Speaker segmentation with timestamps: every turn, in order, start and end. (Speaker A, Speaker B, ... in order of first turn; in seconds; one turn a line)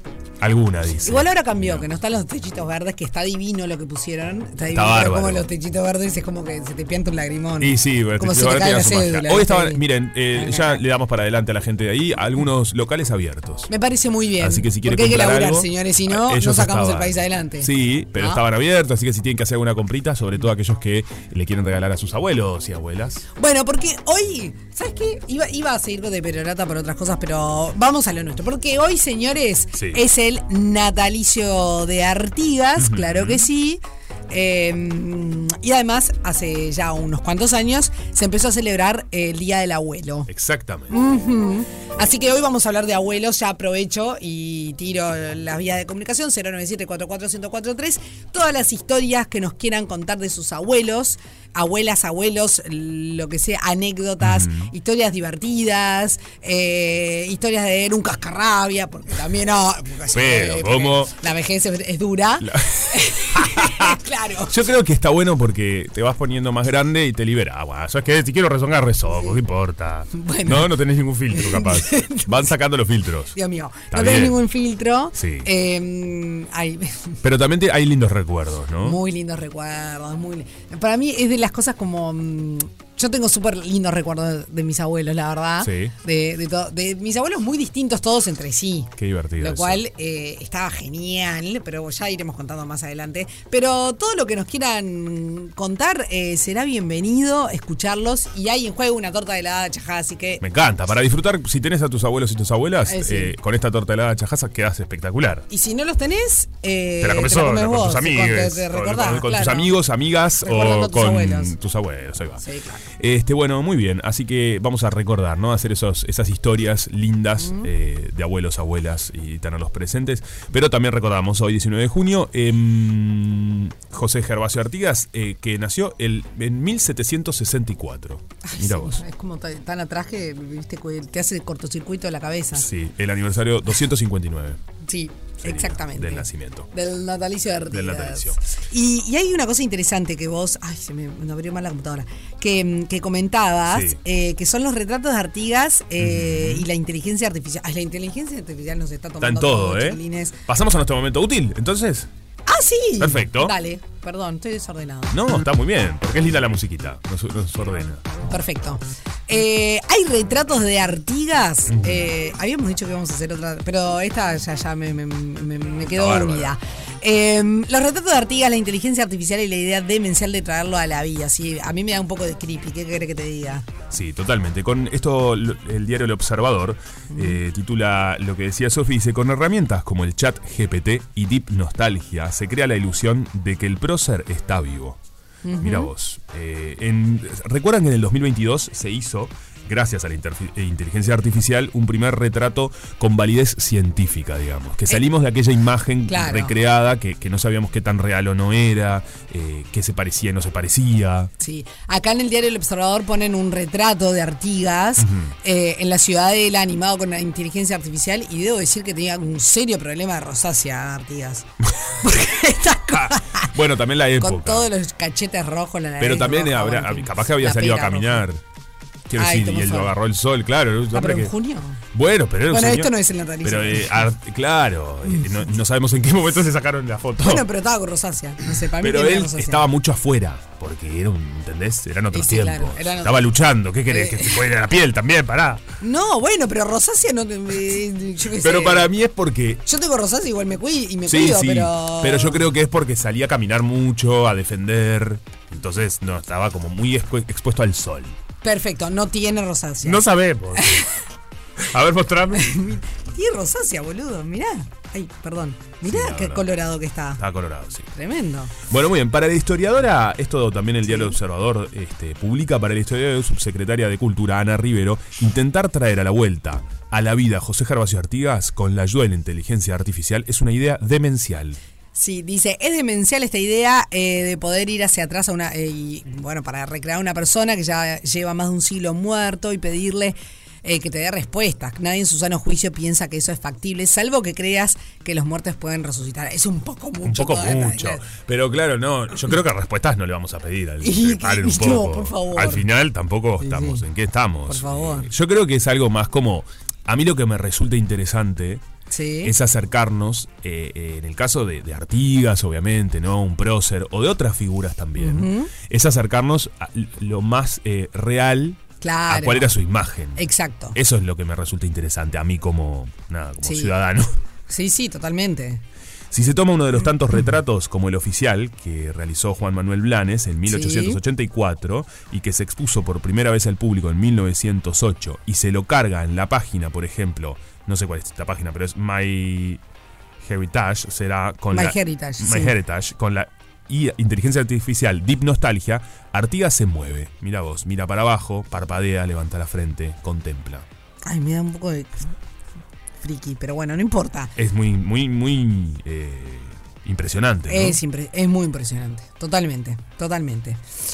Speaker A: 0.4-1.9
Speaker B: 1.0-10.8
Speaker A: 4.7-5.5
Speaker A: 7.6-13.7
Speaker B: 13.7-18.4
Speaker A: 14.4-23.2
Speaker B: 23.4-40.3
Speaker A: 29.7-30.0
Speaker A: 32.8-33.5
Speaker A: 40.3-40.9
Speaker B: 40.9-64.5
Speaker A: 54.2-54.7
Speaker A: 60.1-61.1
Speaker A: 62.4-64.0
Speaker A: 64.5-73.3
Speaker B: 70.1-70.7
Speaker B: 71.3-72.3
Speaker B: 73.3-77.2
Speaker A: 73.9-74.4
Speaker A: 75.2-75.5
Speaker A: 77.2-79.0
Speaker B: 78.8-100.4
Speaker A: 85.6-85.9
Speaker A: 89.0-89.8
Speaker A: 100.4-105.5
Speaker B: 102.8-103.3
Speaker B: 105.5-109.7
Speaker A: 107.0-112.4
Speaker B: 110.4-111.5
Speaker B: 112.4-112.8
Speaker A: 113.0-129.0
Speaker B: 117.4-117.7
Speaker B: 128.4-132.7
Speaker A: 132.5-134.6
Speaker B: 134.8-150.4
Speaker A: 135.4-136.7
Speaker A: 137.7-138.4
Speaker A: 143.7-144.0
Speaker A: 146.0-146.7
Speaker A: 149.2-152.1
Speaker B: 152.5-155.2
Speaker A: 153.0-153.5
Speaker A: 155.1-158.0
Speaker B: 158.3-173.7
Speaker A: 161.7-162.1
Speaker A: 165.8-166.5
Speaker A: 173.9-185.0
Speaker B: 177.1-177.4
Speaker B: 185.4-185.9
Speaker A: 185.6-201.3
Speaker B: 196.1-196.5
Speaker B: 201.4-211.5
Speaker A: 205.0-205.3
Speaker B: 212.0-213.5
Speaker A: 212.9-214.7
Speaker B: 214.2-218.2
Speaker A: 216.0-218.4
Speaker A: 219.1-221.3
Speaker B: 219.2-219.9
Speaker B: 220.9-221.8
Speaker A: 221.9-227.4
Speaker B: 222.5-224.1
Speaker B: 227.2-229.7
Speaker A: 228.8-235.6
Speaker B: 232.1-233.3
Speaker B: 233.9-234.5
Speaker B: 235.8-238.9
Speaker A: 238.4-239.6
Speaker B: 239.7-242.4
Speaker A: 241.1-248.2
Speaker B: 248.4-250.1
Speaker A: 249.8-250.8
Speaker B: 250.6-250.9
Speaker A: 251.6-252.5
Speaker B: 252.3-257.2
Speaker A: 255.8-256.4
Speaker A: 257.2-257.9
Speaker B: 257.9-258.5
Speaker A: 258.7-271.6
Speaker B: 260.9-261.1
Speaker B: 271.9-288.1
Speaker A: 287.0-298.6
Speaker B: 290.8-292.6
Speaker B: 293.4-293.8
Speaker B: 294.5-295.1
Speaker B: 298.9-299.3
Speaker A: 299.2-314.1
Speaker B: 305.0-305.5
Speaker B: 308.8-309.5
Speaker B: 310.1-310.8
Speaker B: 313.4-313.7
Speaker B: 314.5-315.6
Speaker A: 316.1-329.6
Speaker B: 320.5-321.0
Speaker A: 330.2-340.6
Speaker B: 331.5-332.5
Speaker B: 341.0-342.1
Speaker B: 343.0-344.3
Speaker A: 344.4-347.8
Speaker B: 347.5-350.6